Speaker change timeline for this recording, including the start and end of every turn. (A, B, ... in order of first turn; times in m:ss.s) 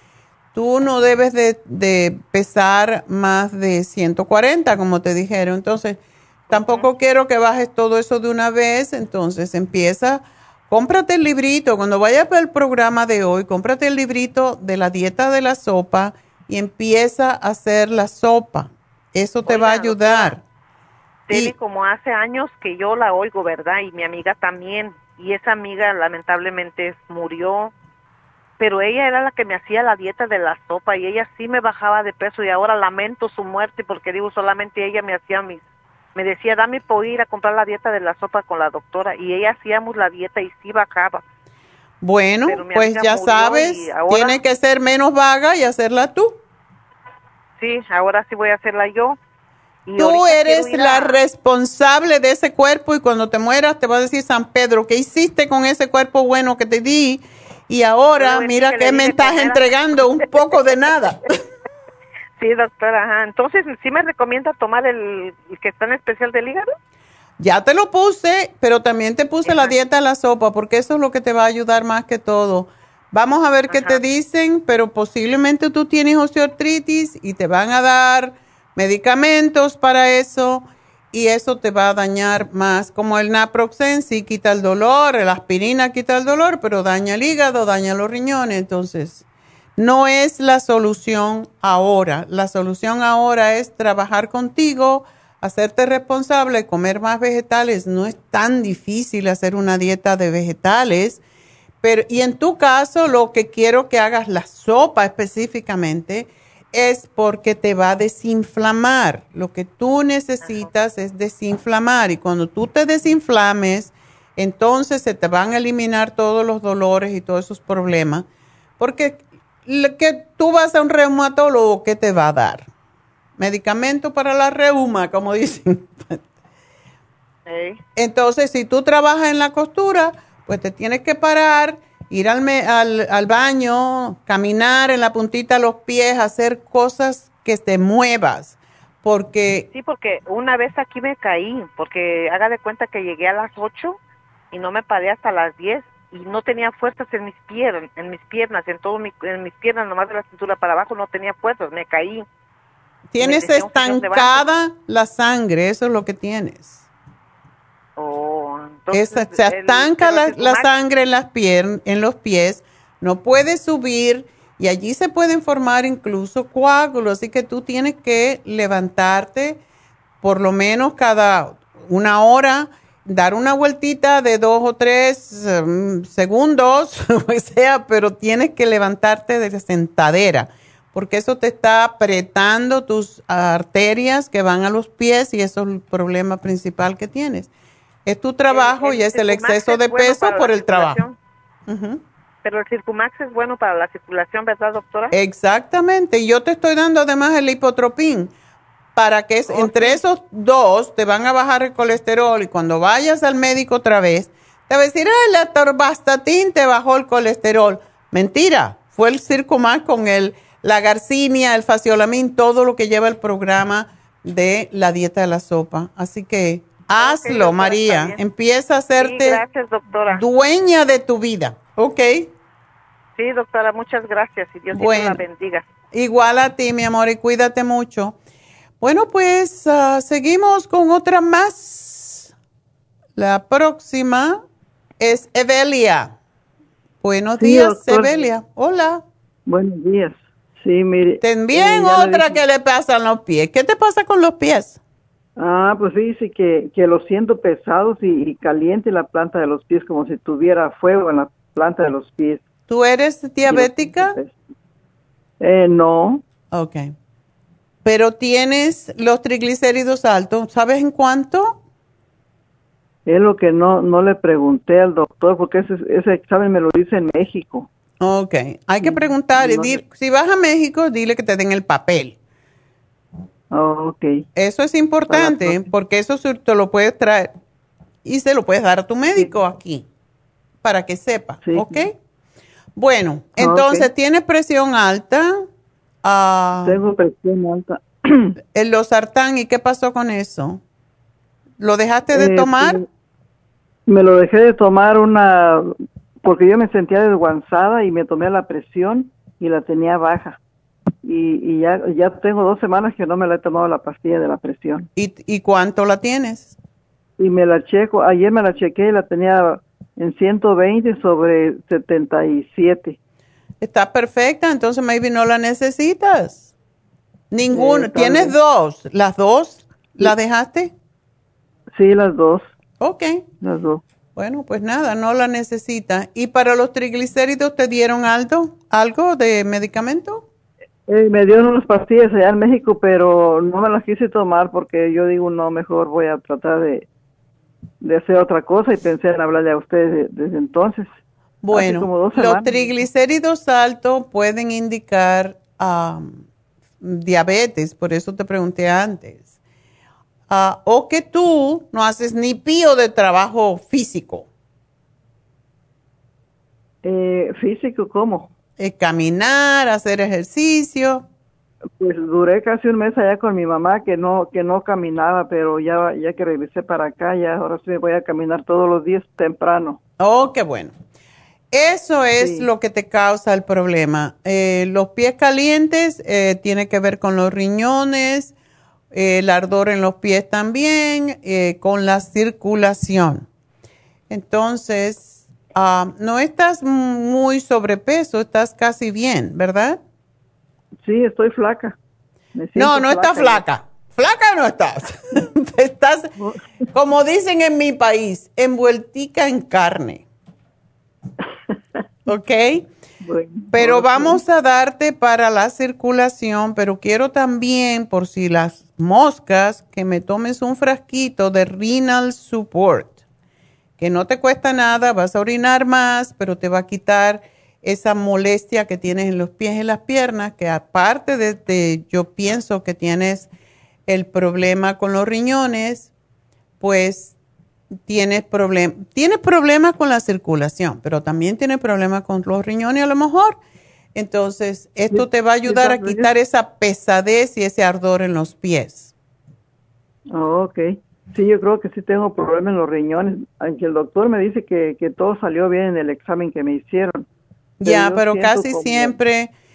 0:00.5-0:06.0 A
0:06.5-0:06.9 B
0:06.5-0:20.4 A
0:19.4-0:20.3 B
0:21.3-0:27.7 B
0:28.6-0:35.6 B
0:36.1-0:41.2 B
0:42.0-0:46.4 A
0:42.4-0:44.4 B
0:47.6-0:49.2 B
0:49.8-0:51.2 B
0:50.0-1:01.2 A
0:58.2-1:00.7 B
1:02.4-1:06.7 B
1:07.4-1:29.2 A
1:09.4-1:09.7 B
1:13.7-1:14.0 B
1:29.8-1:41.2 A
1:41.8-1:58.2 A
1:50.4-1:50.7 B
1:58.8-2:02.7 A
2:03.4-2:06.2 A
2:07.5-2:07.8 B
2:08.0-2:19.6 A
2:19.7-2:24.0 B
2:24.5-2:32.2 B
2:33.1-2:36.8 A
2:33.2-2:34.4 B
2:38.0-2:40.7 B
2:38.9-2:49.6 A
2:50.2-3:07.5 A
3:08.0-3:11.0 A
3:08.5-3:11.2 B
3:11.7-3:12.0 A
3:12.4-3:15.1 B
3:15.1-3:18.3 A
3:19.0-3:39.4 A
3:19.5-3:20.0 B
3:36.9-3:38.2 B
3:39.0-3:40.2 B
3:40.1-3:42.3 A
3:43.2-3:45.6 B
3:44.7-3:45.2 A
3:45.9-3:48.2 A
3:48.8-3:52.3 A
3:53.2-3:54.4 A
3:55.0-3:56.1 A
3:57.0-3:59.0 A
3:57.4-3:58.2 C
3:59.5-4:02.4 C
4:01.2-4:04.8 A
4:05.4-4:12.4 C
4:12.7-4:14.2 A
4:13.5-4:14.3 C
4:15.4-4:16.2 C
4:16.5-4:16.9 A
4:17.8-4:21.6 A
4:23.0-4:27.7 C
4:28.0-4:32.2 A
4:28.8-4:29.8 C
4:33.5-4:34.2 C
4:34.4-4:37.3 A
4:35.1-4:35.7 C
4:38.0-4:39.8 A
4:40.6-4:41.9 A
4:41.4-4:41.9 C
4:42.8-4:45.4 A
4:43.4-4:43.9 C
4:46.0-4:46.8 A
4:46.6-4:48.3 C
4:48.5-4:50.6 A
4:51.6-4:52.8 A
4:52.1-4:52.8 C
4:53.9-5:00.4 C
5:01.0-5:04.9 C
5:05.0-5:06.5 A
5:07.2-5:13.0 C
5:13.6-5:16.5 A
5:17.3-5:20.7 A
5:17.5-5:18.4 C
5:21.7-5:22.4 C
5:22.8-5:23.2 A
5:23.4-5:23.8 C
5:24.2-5:30.2 A
5:30.9-5:36.8 C
5:37.8-5:40.9 C
5:41.4-5:46.2 A
5:41.5-5:42.8 C
5:46.8-5:49.2 A
5:50.3-5:54.2 A
5:56.8-5:58.3 C
5:58.6-6:01.0 A
6:01.8-6:09.8 C
6:10.0-6:10.7 A
6:11.5-6:18.3 A
6:12.2-6:12.5 C
6:18.9-6:23.2 A
6:24.1-6:29.8 A
6:30.8-6:31.8 C
6:32.3-6:33.4 C
6:32.6-6:36.1 A
6:36.7-6:40.0 A
6:42.1-6:42.6 A
6:43.0-6:44.2 C
6:43.5-6:53.0 A
6:53.8-7:03.3 A
7:03.9-7:05.9 A
7:06.6-7:07.1 A
7:07.8-7:13.4 A
7:13.9-7:18.9 A
7:14.9-7:16.1 C
7:20.1-7:27.0 C
7:27.6-7:29.3 A
7:27.6-7:29.0 C